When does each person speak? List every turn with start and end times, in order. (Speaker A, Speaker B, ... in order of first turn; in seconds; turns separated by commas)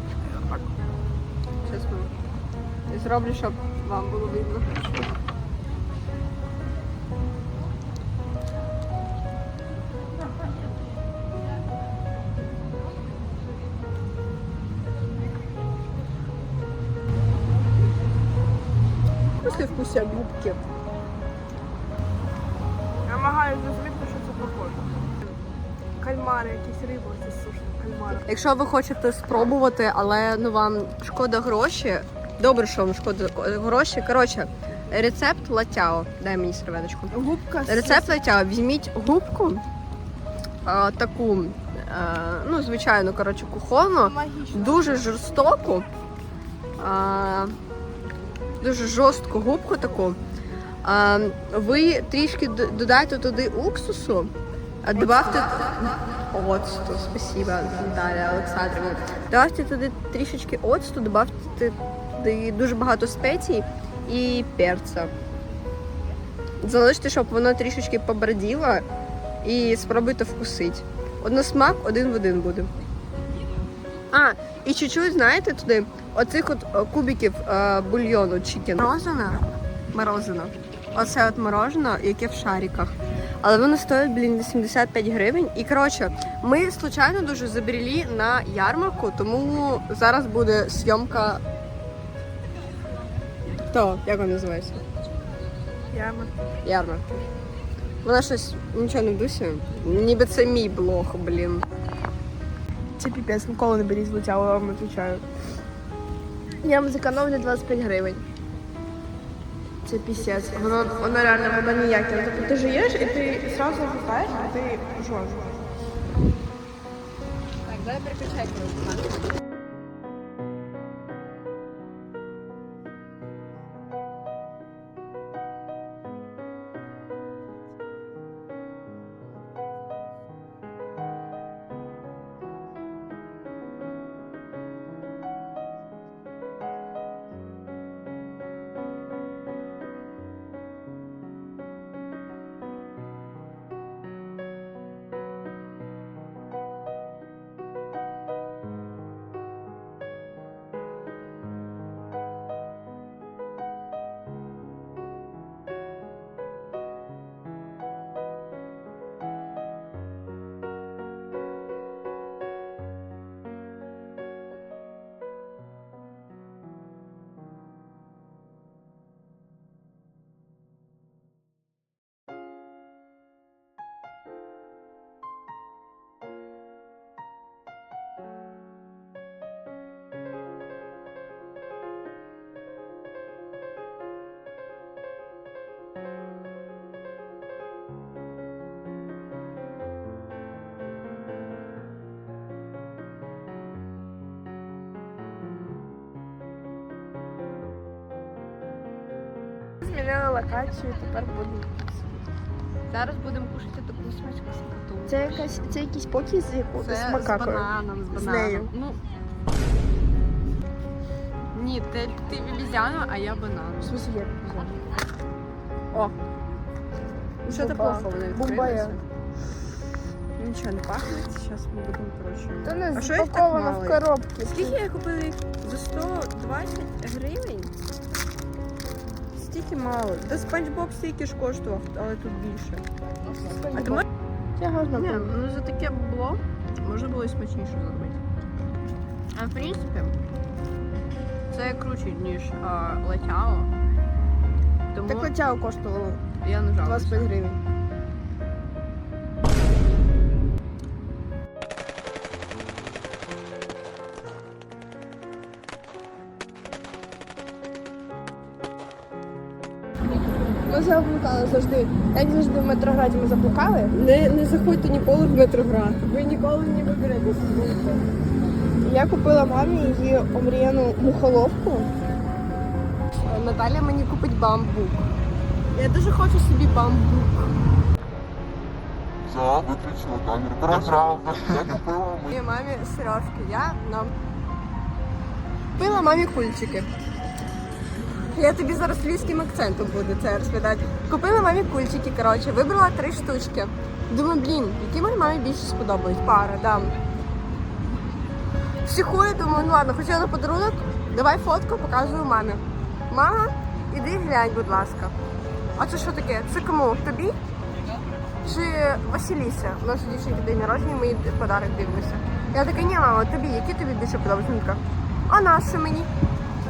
Speaker A: 0.2-0.7, Speaker B: 1.6-2.1, Speaker B: 2.9-5.1, Speaker B: 19.4-20.6, Speaker A: 23.1-25.1, Speaker A: 26.0-28.2, Speaker B: 28.3-37.1, Speaker A: 37.1-38.2, Speaker B: 37.7-39.6, Speaker B: 40.6-45.9, Speaker A: 44.0-45.2, Speaker B: 46.8-47.5, Speaker B: 48.6-50.2, Speaker B: 50.8-54.3, Speaker B: 54.8-65.1, Speaker B: 66.6-68.8, Speaker B: 69.4-72.7, Speaker B: 74.1-91.4, Speaker B: 93.7-94.8, Speaker A: 95.9-96.3, Speaker B: 96.6-97.1, Speaker B: 98.0-101.7, Speaker A: 103.0-105.2, Speaker A: 106.6-108.2, Speaker A: 109.8-115.6, Speaker B: 110.5-111.1, Speaker B: 117.7-119.1, Speaker A: 199.8-202.2, Speaker B: 202.9-205.8, Speaker A: 205.1-208.7, Speaker B: 206.8-209.0, Speaker B: 211.5-213.9, Speaker A: 213.8-214.8, Speaker B: 217.4-219.0, Speaker A: 217.5-219.0, Speaker B: 220.4-227.8, Speaker A: 222.6-224.8, Speaker B: 229.3-232.8, Speaker A: 233.4-234.0, Speaker B: 233.7-234.1, Speaker A: 234.6-235.3, Speaker B: 234.9-238.2, Speaker B: 239.3-240.2, Speaker B: 241.5-243.7, Speaker B: 244.9-245.3, Speaker A: 245.1-246.2, Speaker B: 246.4-247.3, Speaker A: 246.8-247.6, Speaker A: 260.7-264.0, Speaker B: 263.9-268.1, Speaker A: 268.8-271.9, Speaker B: 273.2-275.1, Speaker B: 275.7-277.6, Speaker C: 279.3-282.2, Speaker B: 282.2-284.1, Speaker B: 285.8-286.9, Speaker B: 288.3-296.9, Speaker B: 298.8-305.1, Speaker B: 305.8-307.4, Speaker B: 308.4-316.1